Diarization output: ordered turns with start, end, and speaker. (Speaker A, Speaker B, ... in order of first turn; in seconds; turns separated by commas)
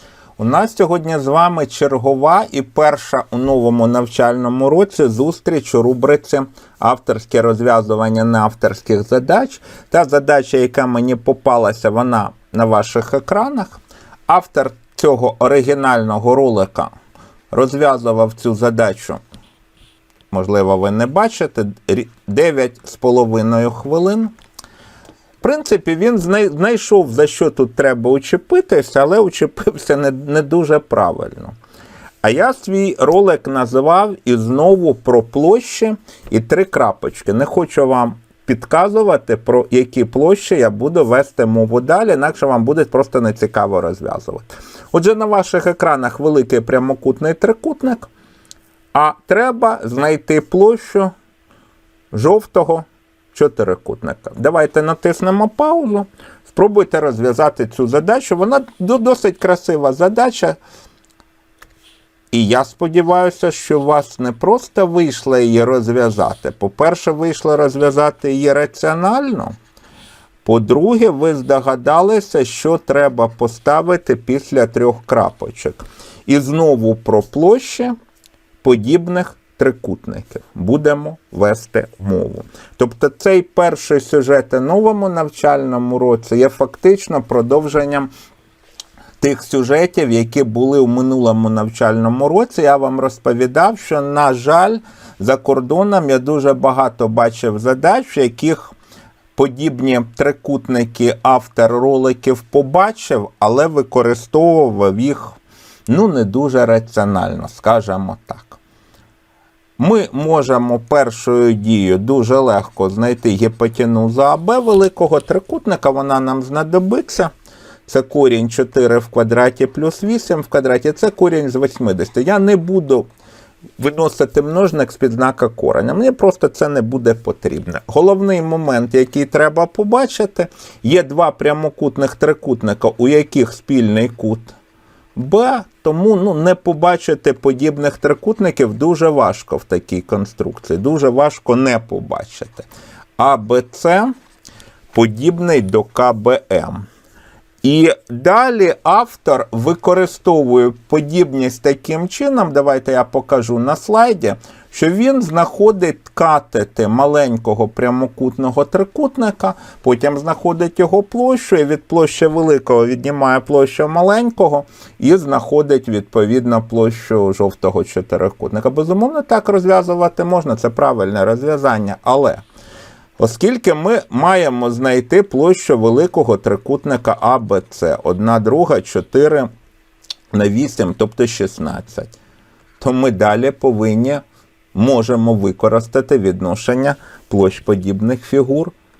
Speaker A: 0.4-16.9, Speaker A: 17.5-19.2, Speaker A: 20.3-24.3, Speaker A: 25.4-31.5, Speaker A: 32.2-48.1, Speaker A: 48.9-51.1, Speaker A: 52.1-60.6, Speaker A: 62.3-69.5, Speaker A: 70.4-77.9, Speaker A: 78.6-88.1, Speaker A: 89.2-98.7, Speaker A: 99.3-108.6, Speaker A: 109.8-117.3, Speaker A: 117.9-123.1, Speaker A: 123.8-134.5, Speaker A: 135.2-142.7, Speaker A: 143.2-144.1, Speaker A: 144.9-146.8, Speaker A: 147.6-172.4, Speaker A: 173.2-179.5, Speaker A: 180.3-182.1, Speaker A: 182.8-184.2, Speaker A: 184.7-188.7